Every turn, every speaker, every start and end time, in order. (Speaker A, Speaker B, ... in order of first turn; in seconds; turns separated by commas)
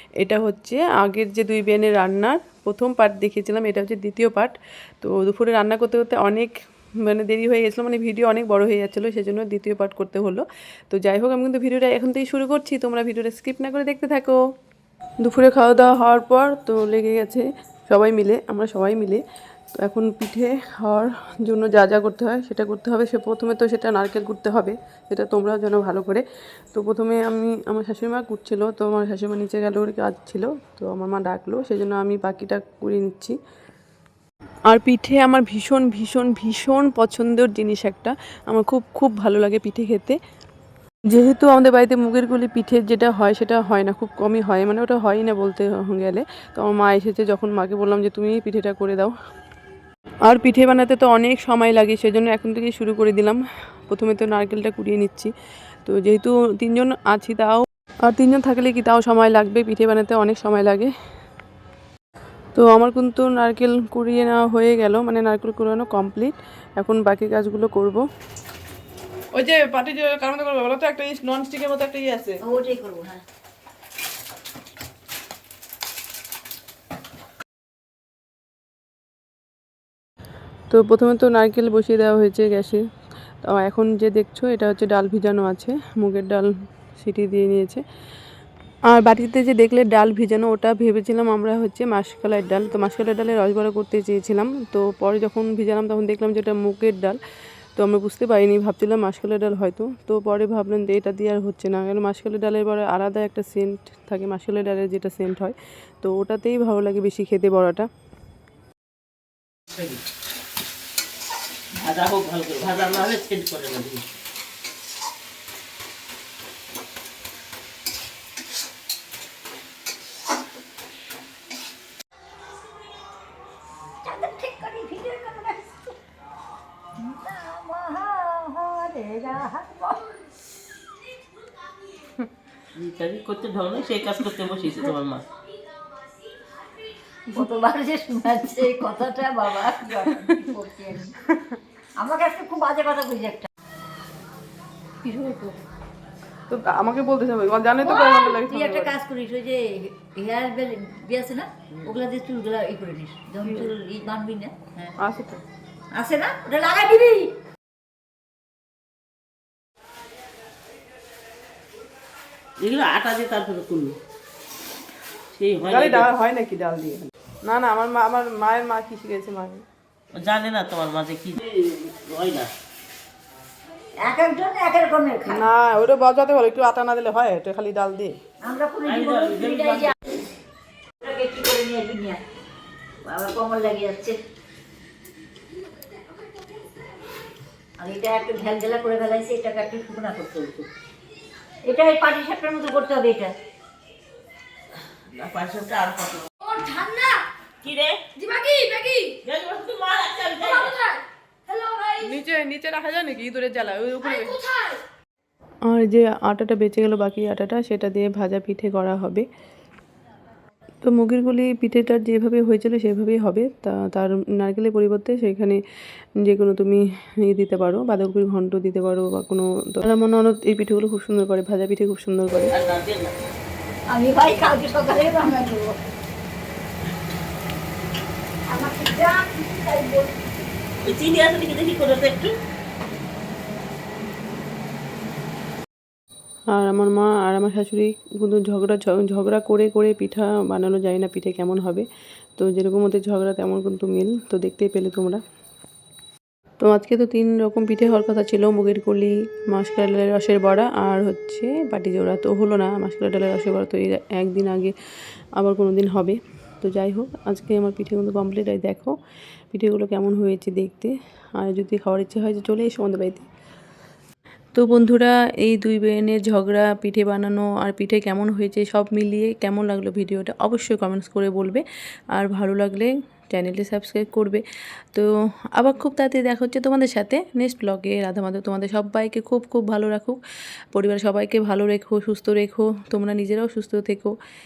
Speaker A: 0.2-6.5, Speaker A: 7.0-14.4, Speaker A: 15.2-19.2, Speaker A: 19.8-33.4, Speaker A: 34.7-40.2, Speaker A: 41.1-49.1, Speaker A: 50.2-53.4, Speaker A: 53.9-55.3, Speaker A: 55.9-60.9, Speaker A: 62.5-68.0, Speaker A: 69.3-72.4, Speaker B: 72.4-73.2, Speaker A: 80.7-82.8, Speaker A: 83.5-87.8, Speaker A: 88.9-97.2, Speaker A: 97.8-107.9, Speaker C: 109.7-110.0, Speaker C: 111.8-114.0, Speaker B: 124.0-126.0, Speaker B: 127.0-130.2, Speaker C: 132.7-135.2, Speaker B: 137.3-141.2, Speaker B: 142.0-143.5, Speaker B: 145.0-145.6, Speaker A: 146.5-148.9, Speaker B: 147.8-154.9, Speaker A: 153.4-153.7, Speaker A: 155.0-155.4, Speaker B: 155.9-157.3, Speaker C: 162.6-164.0, Speaker C: 165.3-166.1, Speaker A: 165.7-169.6, Speaker C: 170.1-172.5, Speaker B: 174.0-175.5, Speaker A: 175.3-178.2, Speaker B: 178.4-179.9, Speaker C: 178.9-179.9, Speaker B: 181.0-182.2, Speaker B: 183.1-184.2, Speaker B: 187.8-190.7, Speaker B: 191.7-193.3, Speaker C: 194.9-196.3, Speaker B: 196.4-197.2, Speaker C: 197.6-198.0, Speaker B: 198.2-199.2, Speaker C: 199.2-200.8, Speaker B: 200.6-202.1, Speaker A: 202.0-204.4, Speaker B: 204.3-204.7, Speaker A: 205.7-209.2, Speaker A: 210.8-215.6, Speaker A: 216.2-222.5, Speaker C: 222.5-223.2, Speaker B: 223.9-225.8, Speaker B: 228.5-230.3, Speaker C: 230.8-232.4, Speaker A: 236.5-241.9, Speaker A: 242.4-245.2, Speaker A: 246.6-254.7, Speaker A: 255.4-258.9, Speaker A: 259.5-263.3, Speaker A: 264.6-274.4, Speaker A: 274.9-280.2, Speaker A: 280.7-284.1